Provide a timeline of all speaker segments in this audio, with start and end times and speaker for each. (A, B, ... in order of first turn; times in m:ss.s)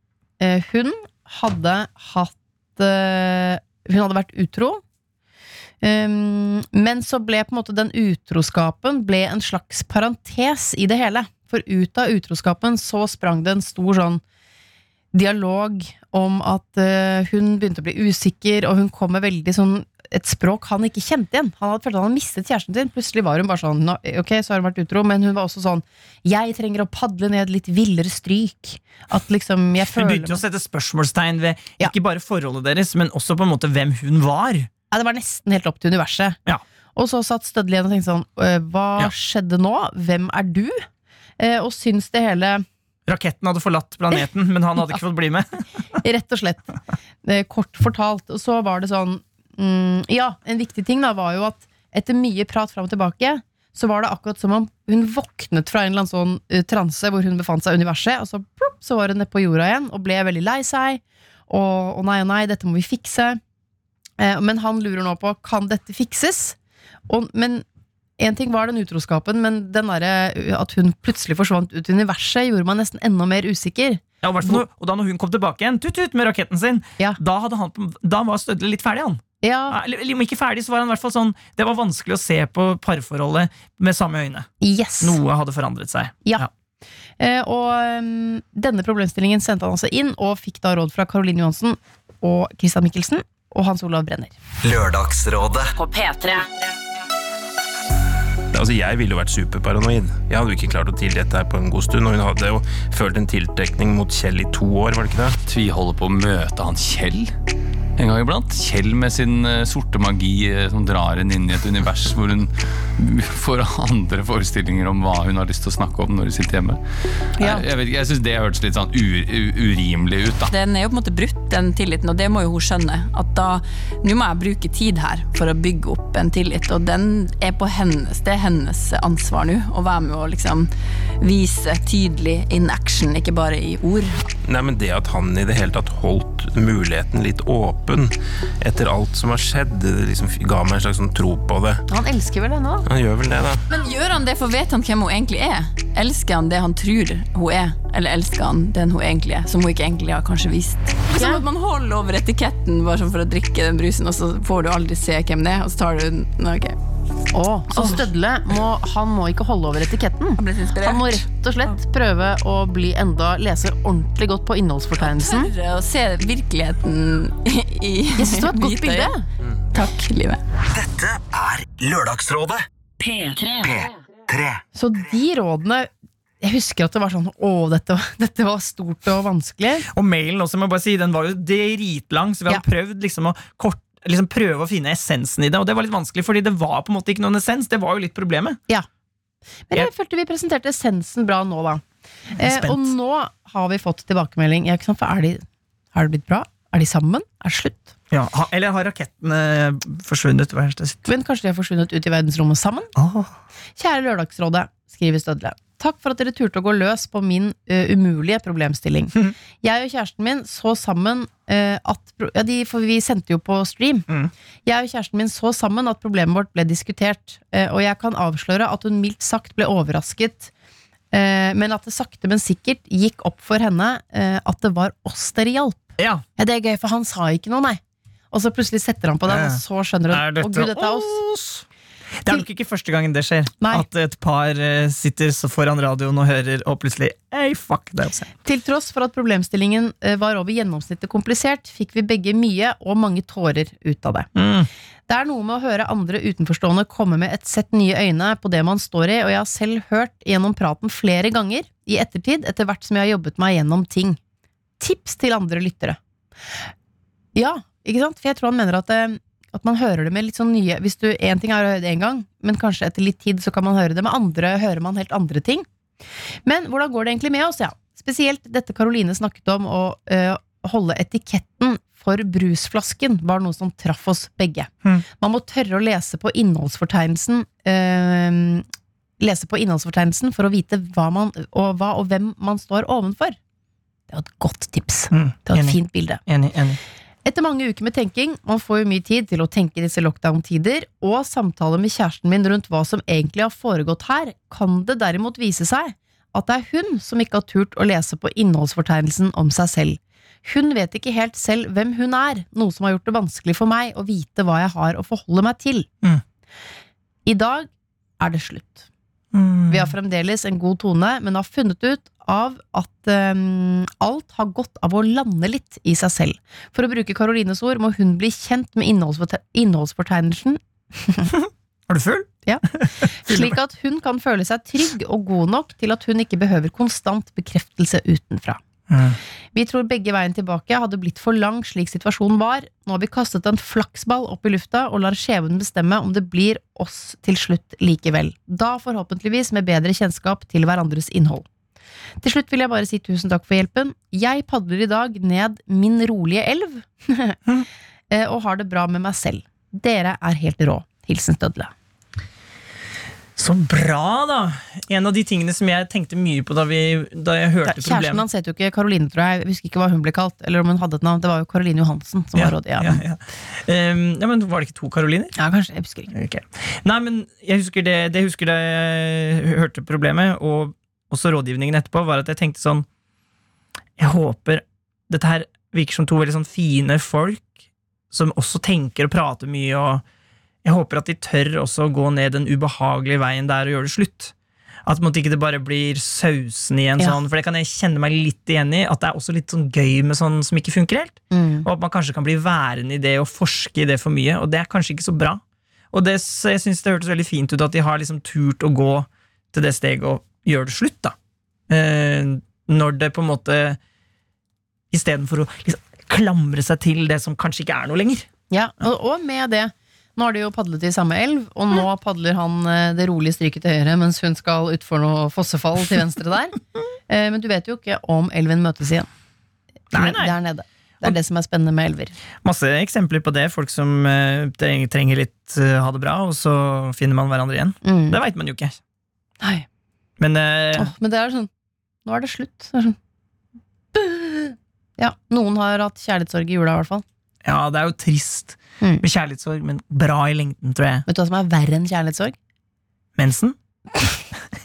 0:00.4-0:04.8 A
0:05.8-0:14.2 A
0:15.1-0:30.4 A
0:29.9-0:34.7 B
0:34.9-0:36.4 A
0:36.9-0:40.8 A
0:41.4-0:42.6 A
0:43.1-0:45.6 B
0:46.0-1:03.4 A
1:04.2-1:06.6 A
1:07.1-1:07.6 A
1:08.2-1:14.6 A
1:14.2-1:24.5 B
1:19.4-1:19.8 A
1:24.6-1:25.2 A
1:25.0-1:26.5 B
1:27.2-1:34.3 A
1:34.6-1:35.7 C
1:35.8-1:36.5 D
1:38.5-1:45.4 E
1:45.4-1:47.3 F
1:48.0-1:56.8 F
1:57.4-1:57.6 A
1:57.4-2:00.5 F
2:00.5-2:10.7 D
2:11.2-2:14.3 D
2:14.4-2:21.8 E
2:21.9-2:22.8 A
2:22.8-2:23.6 E
2:23.7-2:36.8 D
2:31.1-2:31.4 A
2:37.3-2:45.5 A
2:37.7-2:38.0 D
2:40.4-2:41.2 D
2:45.0-2:49.2 D
2:48.1-2:49.2 A
2:49.7-2:50.4 D
2:50.7-2:52.6 C
2:53.0-2:53.7 D
2:53.6-2:54.6 C
2:54.7-2:55.9 A
2:56.4-2:59.8 A
2:59.9-3:08.6 B
3:09.7-3:11.8 A
3:12.3-3:17.9 A
3:12.4-3:12.9 B
3:18.1-3:21.0 B
3:21.0-3:22.9 A
3:22.9-3:23.3 B
3:23.8-3:34.0 A
3:34.6-3:40.5 A
3:41.1-3:47.8 A
3:46.0-3:46.2 B
3:48.3-3:51.2 A
3:49.3-3:51.6 B
3:52.2-3:58.3 B
3:53.6-3:53.8 A
3:58.4-4:04.3 A
4:04.3-4:04.7 B
4:05.1-4:14.2 A
4:14.8-4:16.0 A
4:17.3-4:25.6 A
4:26.4-4:38.6 A
4:39.2-4:43.4 A
4:44.1-4:46.2 A
4:45.1-4:46.8 B
4:47.2-5:05.9 A
5:07.2-5:08.9 A
5:09.3-5:09.9 B
5:09.7-5:21.3 A
5:21.3-5:23.6 B
5:22.4-5:28.6 A
5:28.9-5:29.2 B
5:29.5-5:41.4 A
5:42.2-5:47.4 A
5:48.1-5:51.7 A
5:53.4-5:58.2 B
5:57.6-6:03.0 A
6:02.3-6:05.3 B
6:05.4-6:06.1 A
6:06.1-6:12.8 B
6:14.0-6:17.5 B
6:18.1-6:20.0 B
6:20.6-6:24.3 B
6:24.8-6:35.4 B
6:31.3-6:31.7 A
6:35.9-6:41.1 B
6:41.7-6:43.8 B
6:44.9-6:48.3 B
6:48.5-6:56.6 A
6:57.1-6:59.1 A
6:59.9-7:00.3 B
6:59.9-7:02.1 A
7:02.4-7:08.8 B
7:07.8-7:08.2 A
7:10.2-7:10.9 B
7:10.7-7:11.5 A
7:12.0-7:13.0 A
7:13.9-7:17.0 A
7:17.4-7:21.0 B
7:21.0-7:22.3 A
7:23.2-7:23.6 B